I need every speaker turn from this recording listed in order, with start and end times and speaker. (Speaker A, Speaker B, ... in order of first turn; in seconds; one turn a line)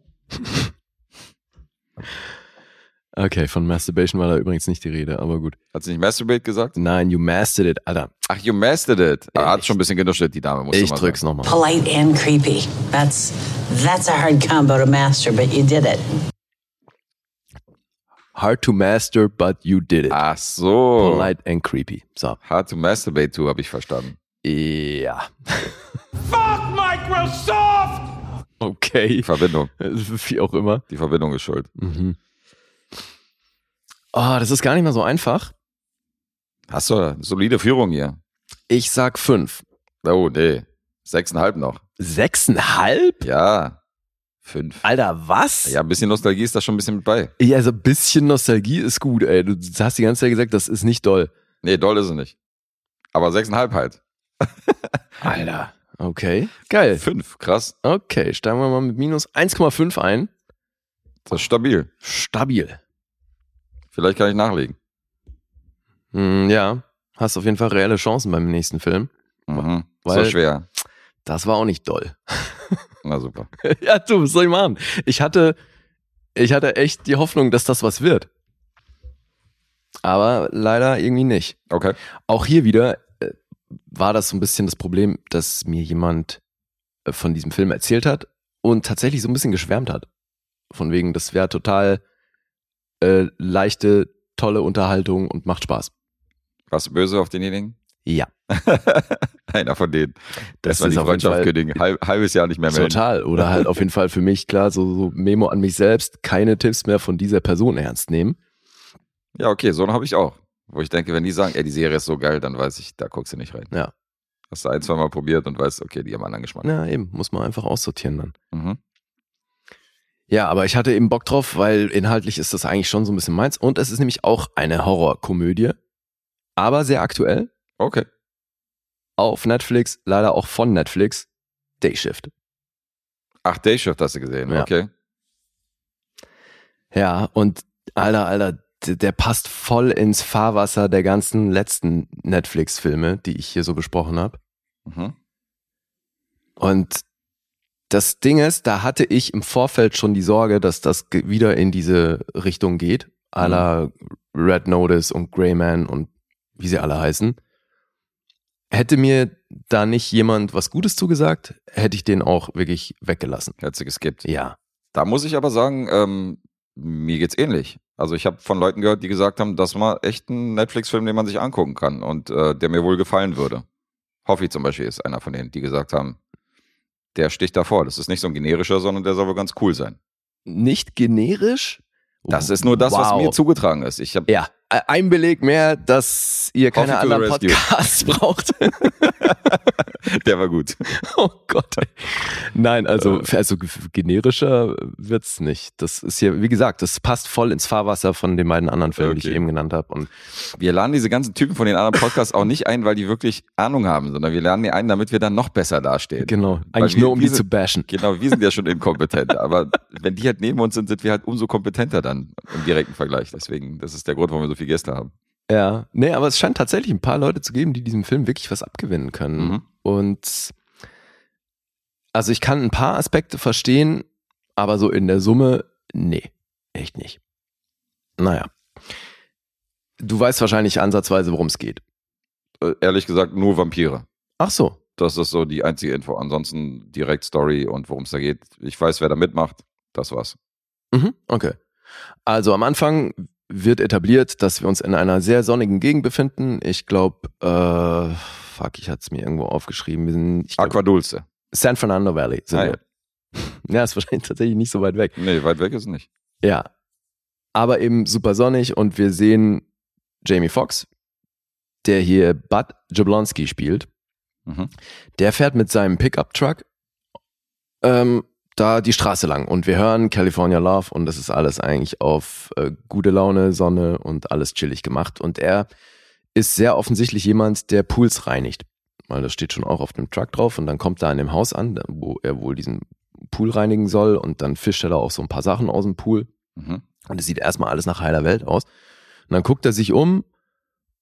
Speaker A: 0.4-0.7
Speaker A: 3.2-5.6
Speaker B: 5.7-6.8
Speaker A: 6.8-8.1
Speaker B: 8.2-11.2
Speaker A: 9.3-9.7
Speaker A: 10.7-11.5
Speaker C: 11.4-16.0
Speaker A: 18.4-20.2
Speaker B: 20.1-21.3
Speaker A: 21.0-22.4
Speaker B: 22.4-24.2
Speaker A: 24.4-25.8
Speaker A: 28.6-30.8
Speaker B: 29.2-29.7
Speaker B: 30.9-31.7
Speaker A: 31.8-32.2
Speaker A: 34.1-35.5
Speaker B: 36.7-38.2
Speaker A: 38.7-39.6
Speaker B: 40.0-41.8
Speaker A: 42.0-43.2
Speaker B: 43.2-43.8
Speaker B: 44.5-44.8
Speaker A: 44.8-45.8
Speaker B: 45.7-47.3
Speaker A: 47.4-51.3
Speaker B: 51.6-52.4
Speaker B: 53.1-55.0
Speaker A: 55.2-57.0
Speaker B: 57.0-57.8
Speaker A: 57.8-60.3
Speaker B: 61.3-61.9
Speaker A: 62.0-62.8
Speaker B: 63.9-64.8
Speaker A: 66.1-70.4
Speaker B: 69.5-70.7
Speaker A: 71.2-72.8
Speaker B: 73.0-73.5
Speaker A: 73.6-75.6
Speaker A: 76.3-78.3
Speaker A: 80.0-81.6
Speaker B: 81.7-82.0
Speaker A: 82.3-83.4
Speaker A: 83.9-86.4
Speaker A: 87.1-90.1
Speaker A: 90.7-92.0
Speaker A: 93.0-95.9
Speaker B: 96.7-97.8
Speaker B: 98.5-103.7
Speaker A: 100.6-101.8
Speaker A: 102.7-108.4
Speaker B: 109.3-113.7
Speaker B: 114.5-116.7
Speaker A: 116.6-118.3
Speaker B: 118.5-118.8
Speaker A: 120.3-125.8
Speaker A: 126.6-127.5
Speaker B: 127.8-128.1
Speaker A: 129.2-131.3
Speaker A: 131.8-132.3
Speaker B: 133.4-134.9
Speaker A: 136.9-144.4
Speaker B: 144.9-145.2
Speaker A: 146.6-147.0
Speaker A: 147.9-157.4
Speaker B: 153.4-153.7
Speaker A: 158.7-163.5
Speaker B: 163.6-164.3
Speaker A: 164.2-164.6
Speaker B: 164.9-173.7
Speaker B: 174.3-176.2
Speaker B: 177.2-180.0
Speaker A: 180.5-183.4
Speaker B: 182.3-184.3
Speaker A: 184.3-189.3
Speaker B: 186.7-187.7
Speaker B: 189.0-190.8
Speaker A: 190.9-200.1
Speaker B: 198.9-199.4
Speaker B: 200.6-215.1
Speaker A: 206.2-207.9
Speaker A: 215.5-220.6
Speaker A: 222.1-224.1
Speaker A: 224.6-227.2
Speaker A: 228.2-228.5
Speaker A: 230.0-231.8
Speaker B: 232.6-234.1
Speaker A: 234.4-234.8
Speaker B: 235.0-240.4
Speaker A: 240.9-241.6
Speaker A: 242.3-250.8
Speaker B: 250.6-251.2
Speaker A: 251.5-252.8
Speaker B: 252.5-252.8
Speaker A: 253.4-255.2
Speaker B: 255.2-256.1
Speaker A: 257.6-259.6
Speaker A: 260.2-260.9
Speaker A: 261.8-263.9
Speaker B: 264.5-264.7
Speaker A: 265.2-266.6
Speaker A: 267.8-275.7
Speaker A: 276.4-286.3
Speaker B: 286.6-286.8
Speaker A: 287.1-288.7
Speaker A: 289.3-290.2